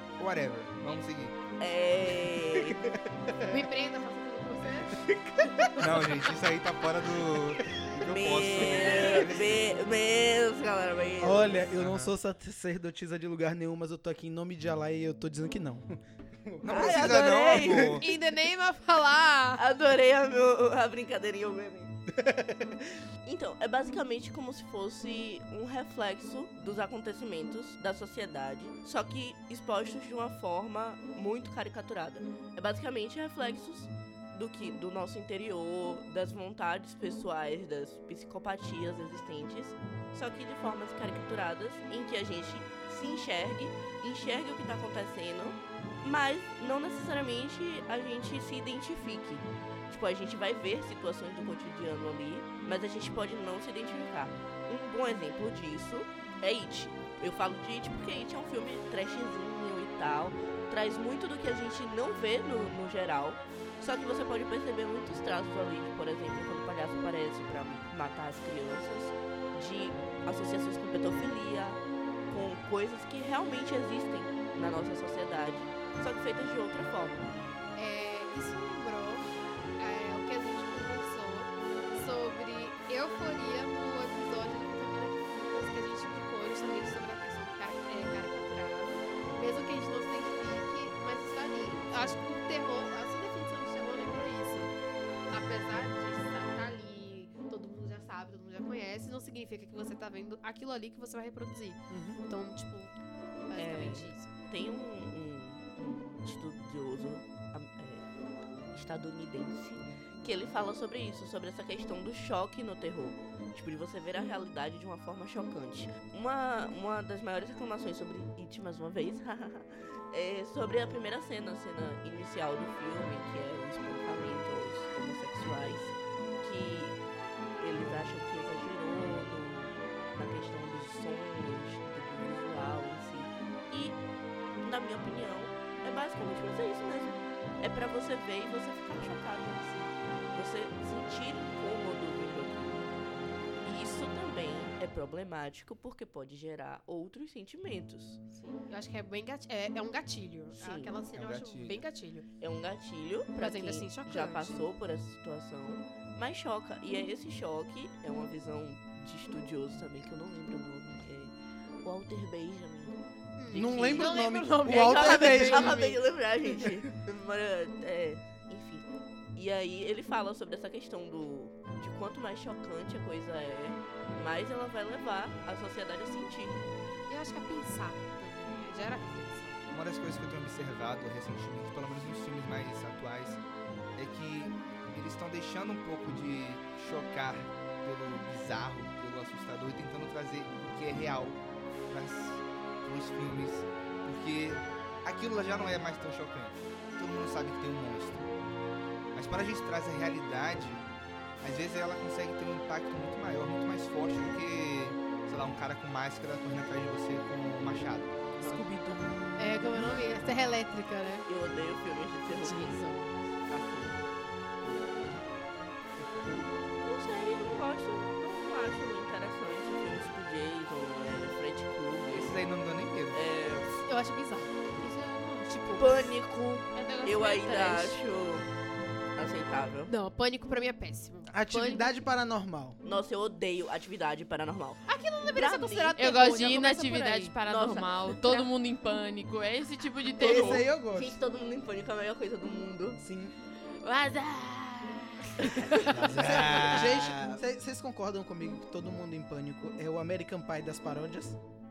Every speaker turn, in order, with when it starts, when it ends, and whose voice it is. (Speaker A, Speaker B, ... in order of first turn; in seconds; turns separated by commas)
Speaker A: 0.2-1.4, Speaker B: 1.6-2.9, Speaker C: 2.3-3.6, Speaker D: 3.5-5.7, Speaker C: 4.9-6.2, Speaker A: 5.8-9.6, Speaker C: 7.3-7.8, Speaker B: 8.1-11.7, Speaker C: 8.6-9.2, Speaker C: 11.2-18.0, Speaker A: 11.8-12.1, Speaker A: 16.6-18.1, Speaker B: 16.7-18.0, Speaker D: 18.0-19.6, Speaker B: 19.6-21.9, Speaker C: 22.1-22.9, Speaker B: 23.2-77.2, Speaker D: 77.8-94.7, Speaker C: 91.9-92.2, Speaker D: 95.3-102.9, Speaker C: 101.9-102.2, Speaker D: 103.5-104.3, Speaker B: 103.5-108.0, Speaker B: 108.7-127.0, Speaker B: 127.6-134.0, Speaker B: 134.6-142.9, Speaker B: 143.6-148.2, Speaker D: 148.3-152.3, Speaker B: 150.5-151.0, Speaker A: 151.1-151.8, Speaker B: 152.4-161.3, Speaker D: 153.3-154.7, Speaker B: 161.8-162.9, Speaker D: 163.4-166.0, Speaker B: 163.5-168.8, Speaker C: 163.5-165.8, Speaker B: 169.3-176.6, Speaker D: 177.1-179.6, Speaker A: 179.7-183.4, Speaker A: 183.9-198.3, Speaker A: 199.1-200.8, Speaker A: 201.4-208.3, Speaker B: 208.4-208.7, Speaker E: 208.4-209.0, Speaker C: 208.5-209.9, Speaker D: 209.4-211.2, Speaker B: 211.3-212.8, Speaker D: 212.4-213.1, Speaker B: 213.5-214.0, Speaker B: 214.6-215.2, Speaker C: 216.0-216.5, Speaker B: 216.8-222.4, Speaker A: 222.1-223.2, Speaker B: 223.1-223.7, Speaker D: 223.8-226.1, Speaker B: 225.8-228.5, Speaker E: 226.7-228.0, Speaker B: 229.2-229.9, Speaker D: 229.9-231.9, Speaker C: 231.3-232.8, Speaker B: 232.8-235.9, Speaker D: 234.8-237.3, Speaker E: 236.0-240.7, Speaker B: 237.4-238.5, Speaker C: 240.2-241.2, Speaker B: 240.2-243.0, Speaker C: 243.0-243.3, Speaker B: 243.8-246.7, Speaker E: 245.5-245.9, Speaker A: 245.9-247.4, Speaker C: 246.6-251.4